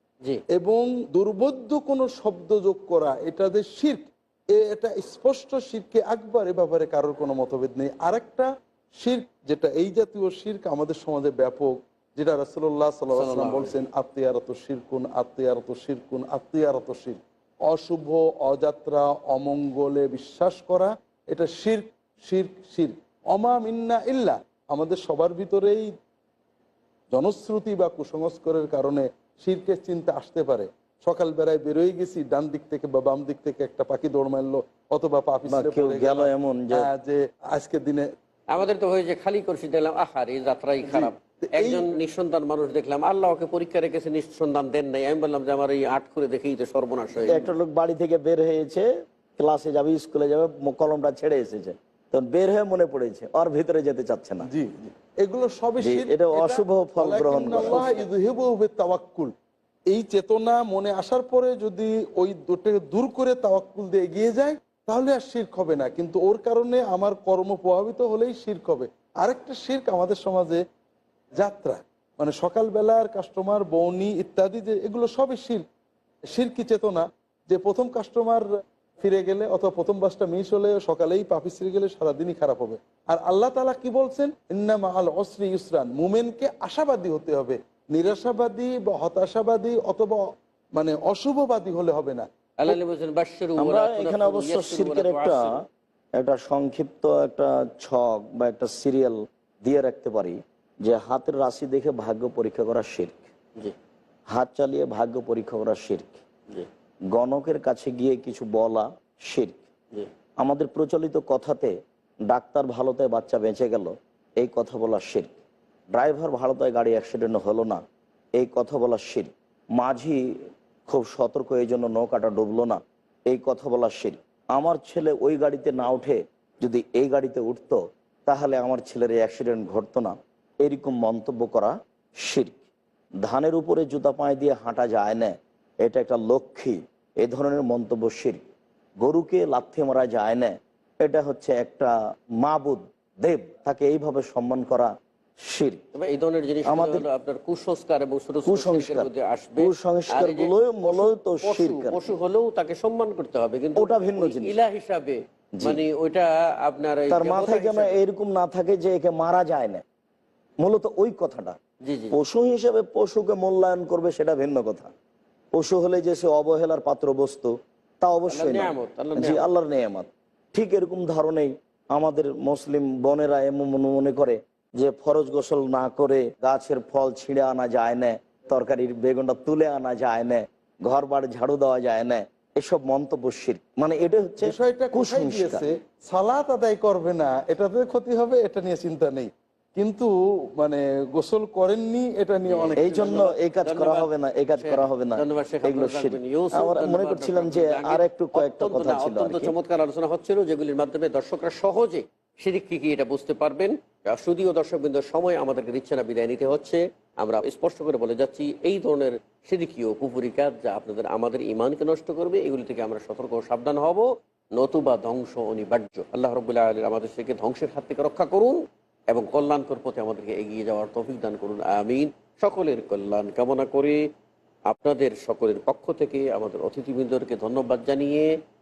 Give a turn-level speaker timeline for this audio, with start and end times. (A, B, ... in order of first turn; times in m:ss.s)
0:00.5-0:25.9 A
0:13.1-0:13.8 B
0:27.1-0:38.1 A
0:35.5-0:36.9 C
0:38.5-0:47.5 B
0:40.8-0:41.8 A
0:47.2-0:48.8 C
0:49.4-0:54.4 C
0:54.4-0:59.3 A
0:55.8-0:58.0 C
0:59.9-1:10.6 A
1:11.4-1:15.6 A
1:16.3-1:18.4 A
1:19.0-1:32.3 A
1:32.6-1:35.5 B
1:33.6-1:35.6 C
1:36.2-1:43.2 C
1:44.3-1:46.2 C
1:47.1-1:49.6 C
1:50.4-1:51.7 C
1:52.3-1:55.4 C
1:55.9-1:57.8 C
1:58.4-2:00.2 C
2:00.9-2:12.6 C
2:13.2-2:18.4 C
2:19.0-2:21.9 C
2:22.4-2:24.9 C
2:25.4-2:25.8 C
2:25.9-2:38.0 B
2:26.6-2:27.0 C
2:28.4-2:32.0 C
2:33.7-2:34.6 C
2:37.1-2:39.8 C
2:40.6-2:41.6 C
2:41.8-2:42.1 B
2:42.1-2:44.9 C
2:45.5-2:47.5 C
2:48.0-3:05.6 C
2:48.3-2:49.4 B
3:04.4-3:13.2 A
3:12.5-3:38.6 B
3:12.8-3:19.5 C
3:39.1-3:44.0 B
3:44.7-3:48.3 B